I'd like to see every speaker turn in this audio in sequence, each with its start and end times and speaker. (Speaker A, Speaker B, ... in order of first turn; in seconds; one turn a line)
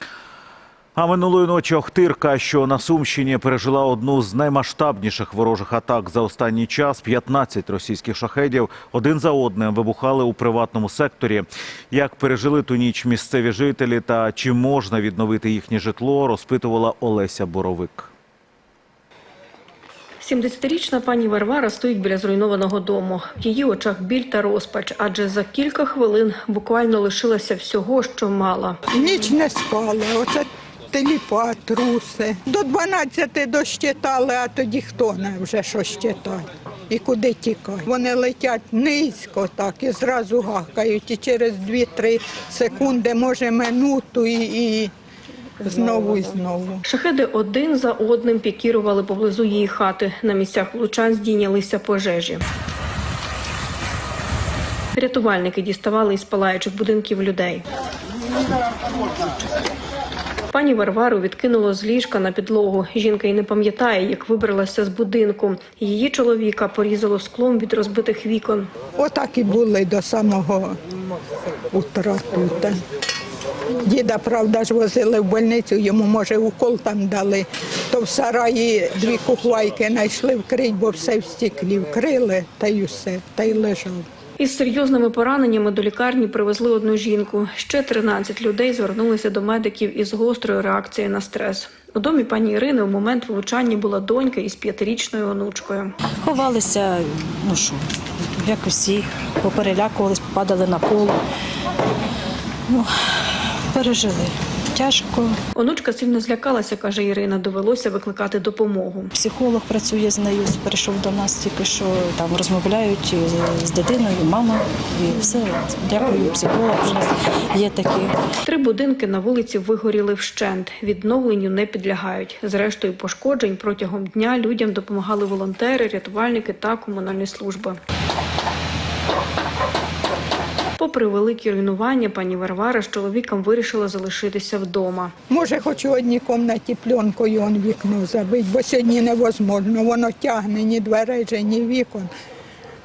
Speaker A: 0.9-18.1
Speaker B: 20.2-28.8
Speaker C: 28.9-44.9
Speaker C: 45.6-46.8
Speaker B: 46.9-52.4
Speaker B: 54.9-57.6
Speaker B: 60.5-68.7
Speaker C: 69.0-70.8
Speaker C: 71.7-72.8
Speaker C: 73.8-84.0
Speaker B: 84.4-95.9
Speaker D: 96.2-101.2
Speaker D: 102.7-105.4
Speaker B: 105.5-109.1
Speaker D: 109.1-118.2
Speaker B: 118.4-127.8
Speaker B: 130.8-135.1
Speaker C: 135.3-142.1